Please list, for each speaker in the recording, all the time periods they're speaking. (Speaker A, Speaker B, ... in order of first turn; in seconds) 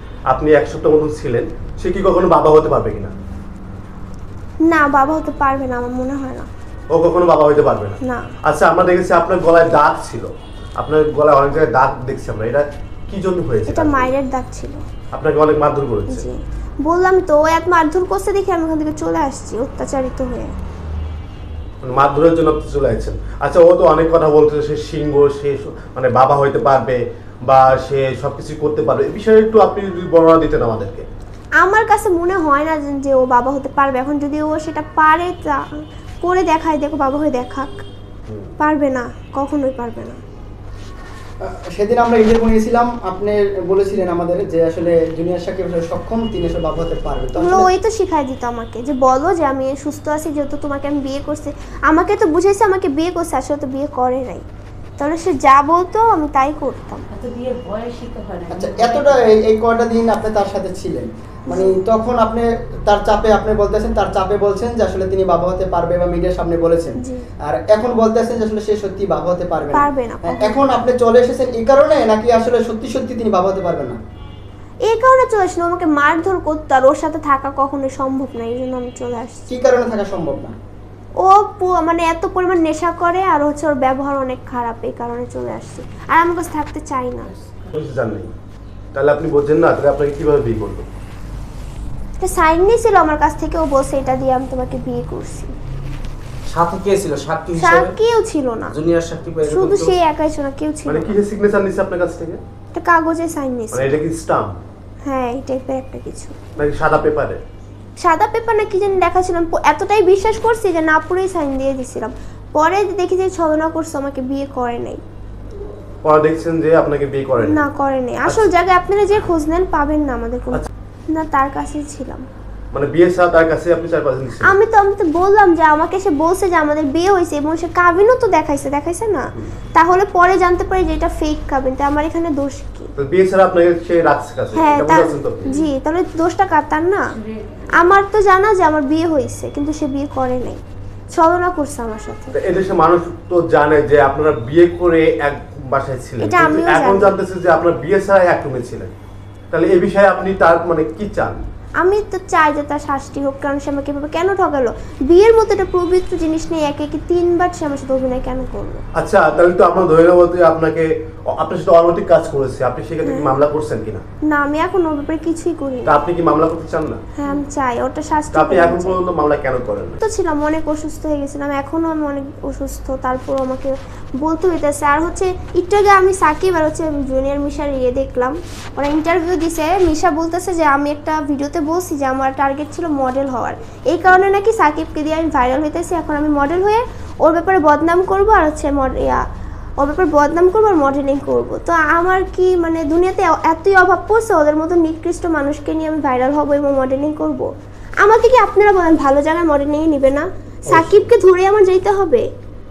Speaker A: 0.3-3.1, 6.9-14.1, 15.1-16.3, 21.8-31.1, 87.7-88.3, 88.9-90.9, 100.9-102.4, 103.7-104.6, 106.6-107.4, 116.0-117.7, 122.7-124.6, 133.0-135.5, 142.3-148.9, 149.5-151.4, 158.9-164.0, 165.9-167.0, 168.3-170.0, 200.7-201.1
Speaker B: 4.7-6.5, 8.0-8.3, 13.7-14.8, 16.1-20.6, 31.6-37.8, 38.6-40.2, 47.4-54.4, 55.0-57.1, 61.5-61.8, 67.0-67.3, 69.7-70.8, 74.9-79.5, 81.2-87.3, 92.2-95.5, 97.6-98.8, 99.4-101.2, 102.7-104.0, 105.0-106.4, 108.0-115.0, 117.4-122.3, 124.4-132.9, 134.6-137.1, 137.8-142.3, 146.2-147.2, 151.8-158.8, 163.0-163.4, 164.3-165.9, 167.2-169.0, 170.0-189.2, 189.8-197.5, 198.0-202.2
Speaker C: 41.4-47.7, 58.5-74.0, 79.5-80.5
Speaker D: 57.1-59.3, 137.1-138.0
Speaker E: 96.5-98.0, 98.7-100.0